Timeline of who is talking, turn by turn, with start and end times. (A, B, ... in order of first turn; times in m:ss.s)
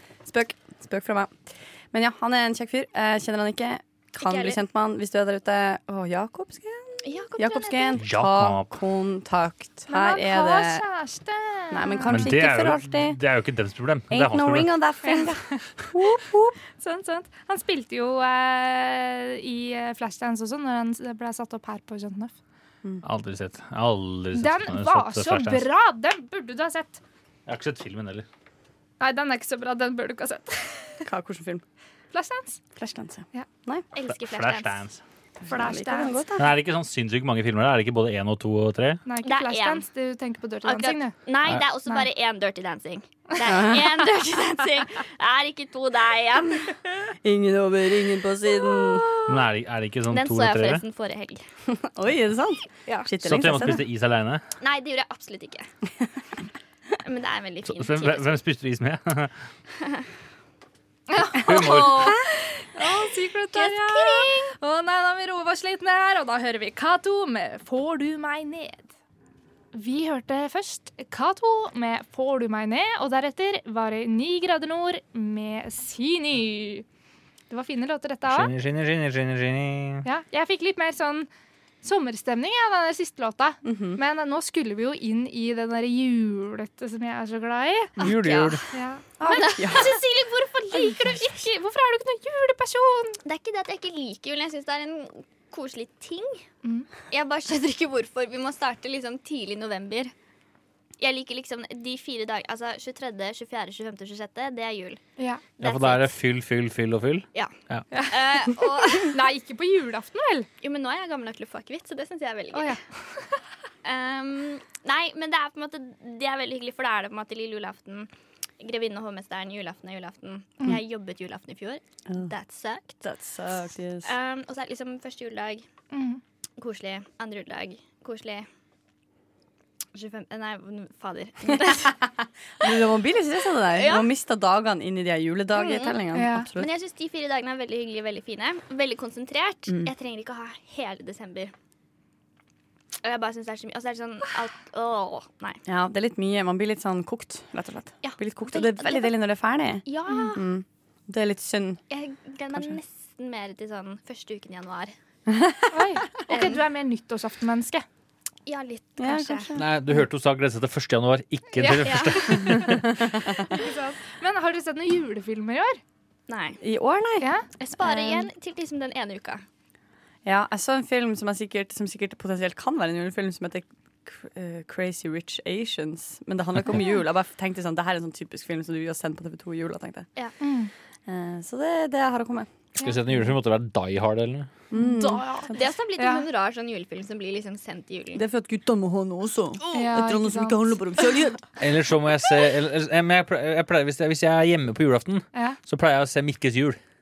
0:00.2-0:10.9 A
0:04.2-0:04.6 B
0:07.0-0:08.0 B
0:08.0-0:08.7 C
0:09.9-0:12.3 D
0:11.7-0:13.2 A
0:12.0-0:14.8 C
0:14.1-0:16.6 A
0:15.0-0:15.6 D
0:16.8-0:22.3 D
0:23.0-0:25.6 C
0:24.3-0:27.0 D
0:27.4-0:28.2 C
0:29.0-0:31.0 D
0:31.0-0:31.6 A
0:32.1-0:32.6 D
0:32.8-0:33.9 A
0:33.9-0:34.8 B
0:34.0-0:35.0 C
0:35.4-0:36.6 A
0:35.5-0:36.2 D
0:36.4-0:39.0 C
0:39.0-0:41.1 D
0:39.2-0:39.8 B
0:40.6-0:46.8 B
0:43.4-0:44.0 A
0:47.2-0:49.1 A
0:48.6-0:49.4 B
0:49.3-0:50.8 C
0:50.1-0:51.4 B
0:51.7-0:53.9 A
0:53.2-0:54.4 C
0:54.6-0:55.7 B
0:57.0-0:58.4 B
0:57.7-0:59.3 C
1:01.1-1:02.2 D
1:01.4-1:02.2 C
1:01.8-1:02.1 A
1:02.7-1:08.9 D
1:03.5-1:04.5 B
1:09.7-1:16.8 D
1:17.5-1:18.5 D
1:18.2-1:20.0 C
1:20.0-1:21.3 D
1:21.8-1:28.0 D
1:23.6-1:24.0 A
1:28.0-1:28.6 C
1:28.0-1:28.6 B
1:28.7-1:30.0 D
1:29.2-1:29.9 A
1:29.3-1:31.4 B
1:30.7-1:33.2 D
1:33.2-1:36.4 B
1:36.6-1:36.9 D
1:37.1-1:40.1 B
1:41.0-1:45.0 B
1:45.2-1:45.4 D
1:45.6-1:46.2 B
1:45.6-1:47.9 C
1:47.3-1:49.2 B
1:47.9-1:50.5 D
1:50.6-1:52.8 B
1:52.5-1:53.4 D
1:53.8-1:58.1 B
1:58.6-2:03.0 B
2:03.0-2:04.1 A
2:04.0-2:05.6 B
2:05.9-2:06.2 D
2:06.6-2:08.5 B
2:09.9-2:12.0 B
2:11.5-2:11.9 A
2:12.6-2:16.7 A
2:13.7-2:14.1 B
2:15.5-2:16.0 B
2:16.1-2:16.5 D
2:16.6-2:21.5 B
2:23.0-2:25.6 B
2:25.7-2:31.8 A
2:28.0-2:29.2 B
2:29.8-2:30.4 B
2:31.9-2:34.9 B
2:35.3-2:36.0 A
2:35.7-2:37.9 D
2:36.3-2:36.6 B
2:38.4-2:39.5 B
2:39.0-2:39.7 A
2:39.6-2:43.0 C
2:41.6-2:42.8 D
2:41.8-2:42.6 B
2:42.8-2:43.2 A
2:43.4-2:45.8 D
2:46.3-2:46.6 B
2:46.6-2:47.3 A
2:47.2-2:47.5 D
2:47.6-2:49.4 B
2:47.8-2:48.3 A
2:50.2-3:00.1 A
3:00.4-3:00.7 D
3:01.1-3:02.5 A
3:02.8-3:04.5 C
3:04.7-3:05.5 A
3:04.7-3:06.2 D
3:05.5-3:08.2 B
3:08.1-3:11.4 A
3:09.7-3:10.6 D
3:11.6-3:16.8 C
3:15.3-3:15.6 D